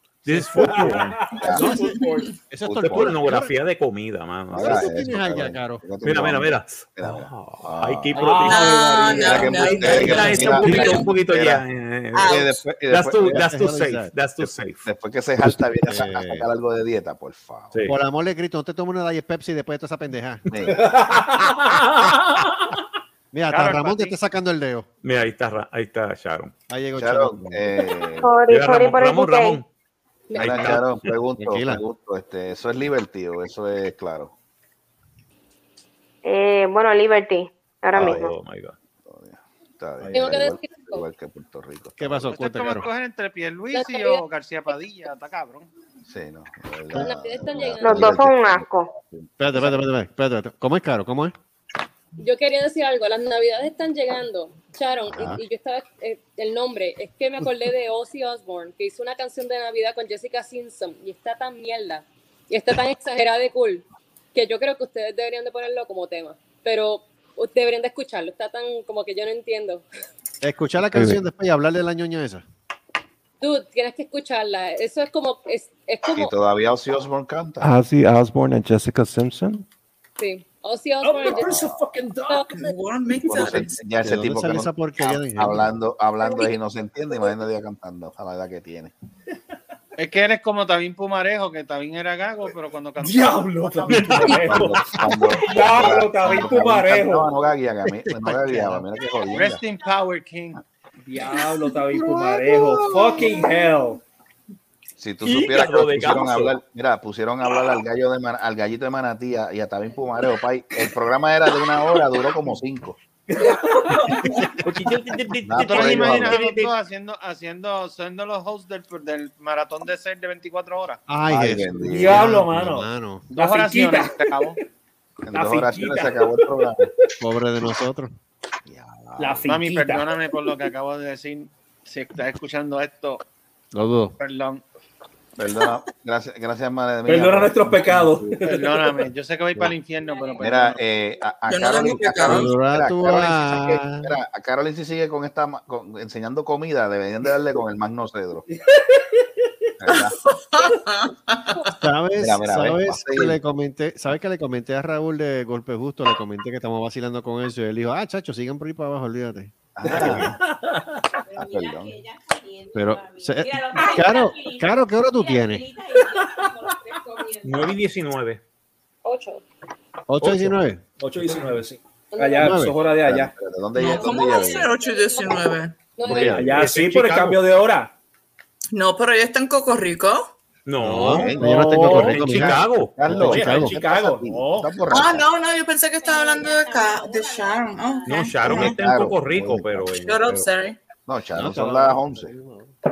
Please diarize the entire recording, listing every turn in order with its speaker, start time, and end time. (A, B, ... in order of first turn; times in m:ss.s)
0:00.2-0:01.4 A
0:00.6-0:02.3 B
0:01.4-0:01.8 C
0:01.5-0:03.6 D
0:01.9-0:02.3 E
0:02.6-0:03.4 C
0:02.8-0:04.9 A
0:04.5-0:11.6 C
0:04.6-0:05.8 D
0:06.0-0:08.9 A
0:08.2-0:10.2 B
0:08.5-0:11.1 E
0:09.8-0:12.3 A
0:10.2-0:11.0 D
0:12.1-0:12.6 E
0:12.2-0:13.4 C
0:12.9-0:14.9 A
0:13.3-0:14.1 D
0:14.4-0:17.7 C
0:15.8-0:16.5 D
0:17.9-0:20.5 D
0:20.5-0:21.2 C
0:20.8-0:22.8 B
0:23.3-0:24.9 D
0:23.5-0:24.2 F
0:25.0-0:26.5 A
0:26.7-0:27.8 D
0:27.0-0:28.3 C
0:28.2-0:29.6 G
0:28.5-0:29.7 A
0:30.3-0:30.7 H
0:30.3-0:34.3 C
0:30.4-0:31.1 A
0:31.4-0:31.8 D
0:36.2-0:38.3 G
0:37.9-0:38.8 A
0:39.0-0:42.3 C
0:40.1-0:41.1 H
0:42.0-0:42.9 D
0:42.3-0:45.7 F
0:43.7-0:44.2 H
0:46.1-0:49.8 C
0:46.9-0:48.3 H
0:47.8-0:48.9 G
0:49.4-0:51.4 D
0:52.2-1:09.8 H
0:55.1-0:55.4 C
1:10.4-1:12.4 D
1:10.8-1:11.2 I
1:13.4-1:16.3 H
1:16.2-1:17.7 C
1:17.6-1:19.6 I
1:20.2-1:21.6 H
1:21.0-1:22.7 B
1:21.3-1:21.8 C
1:22.5-1:23.8 E
1:23.2-1:28.9 C
1:24.0-1:25.7 D
1:30.0-1:34.3 F
1:33.0-1:34.8 B
1:33.9-1:39.6 C
1:34.0-1:34.8 A
1:35.5-1:37.3 B
1:37.8-1:38.9 D
1:39.3-1:40.6 F
1:41.0-1:44.0 B
1:41.9-1:43.3 C
1:45.0-1:53.0 C
1:45.2-1:46.5 A
1:53.3-1:54.9 B
1:54.6-1:56.4 A
1:55.5-1:56.4 C
1:55.6-1:56.7 B
1:55.7-2:01.0 F
2:01.1-2:03.3 D
2:01.3-2:02.4 C
2:01.8-2:04.6 B
2:03.3-2:04.6 F
2:05.3-2:06.9 C
2:05.3-2:07.1 B
2:07.2-2:08.2 D
2:08.7-2:09.5 C
2:09.2-2:10.4 B
2:09.4-2:13.2 F
2:13.7-2:14.2 D
2:14.2-2:14.6 F
2:15.4-2:18.4 C
2:17.1-2:19.0 B
2:18.5-2:20.8 F
2:19.9-2:22.0 J
2:20.4-2:28.5 C
2:21.5-2:22.5 E
2:22.2-2:24.2 D
2:28.5-2:29.4 B
2:29.8-2:30.2 C
2:29.9-2:31.8 E
2:31.8-2:40.2 D
2:32.2-2:33.4 C
2:39.8-2:40.4 C
2:39.8-2:41.0 B
2:41.2-2:47.8 J
2:41.3-2:42.0 C
2:42.7-2:45.7 D
2:47.4-2:48.4 A
2:49.0-2:49.4 H
2:50.1-2:50.8 D
2:51.0-2:53.3 B
2:52.1-2:52.5 H
2:52.4-2:52.8 D
2:53.0-2:54.7 C
2:53.8-2:55.8 E
2:53.8-2:55.4 J
2:56.0-2:56.4 H
2:56.0-2:56.6 C
2:56.3-2:57.9 B
2:56.6-2:57.4 A
2:58.7-3:00.3 E
3:00.7-3:01.4 A
3:00.8-3:03.8 D
3:00.8-3:05.3 C
3:01.4-3:02.2 B
3:01.9-3:03.4 A
3:03.1-3:04.7 B
3:04.9-3:08.8 E
3:06.0-3:08.4 J
3:08.1-3:10.5 A
3:08.4-3:09.9 C
3:10.0-3:10.8 E
3:11.1-3:12.3 C
3:11.4-3:12.7 D